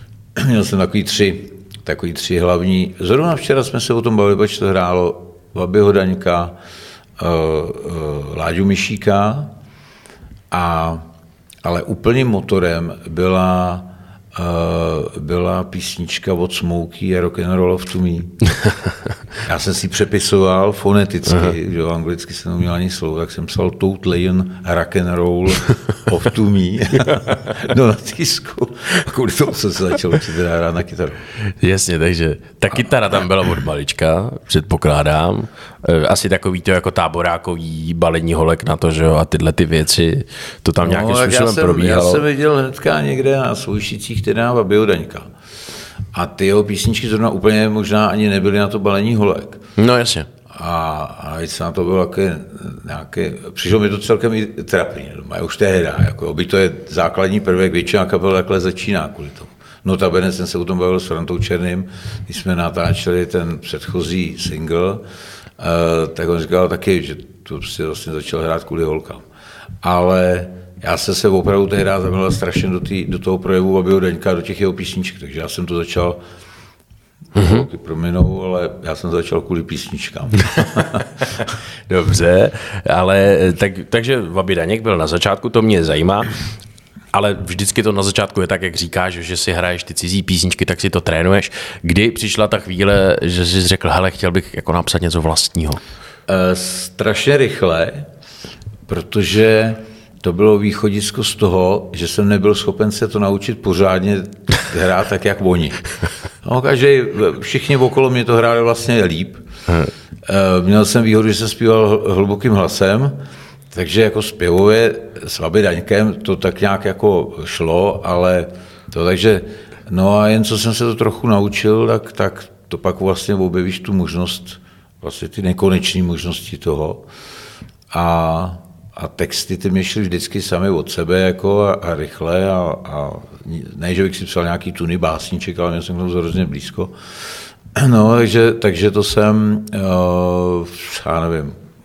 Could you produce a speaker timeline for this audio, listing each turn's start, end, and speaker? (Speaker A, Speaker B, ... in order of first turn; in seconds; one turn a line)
Speaker A: 0.3-6.6
Speaker A: 7.2-9.5
Speaker A: 10.5-11.0
Speaker A: 11.6-18.4
Speaker A: 19.4-31.2
Speaker B: 31.6-42.2
Speaker A: 40.8-45.3
Speaker A: 46.1-49.6
Speaker B: 49.8-50.3
Speaker A: 50.5-65.0
Speaker A: 65.6-69.2
Speaker A: 69.8-76.2
Speaker B: 77.4-77.7
Speaker A: 77.4-81.2
Speaker B: 81.9-86.4
Speaker B: 87.1-95.8
Speaker A: 96.3-98.1
Speaker A: 98.9-105.8
Speaker A: 106.4-109.5
Speaker A: 110.3-113.2
Speaker A: 113.7-127.1
Speaker A: 127.9-137.0
Speaker A: 137.7-141.6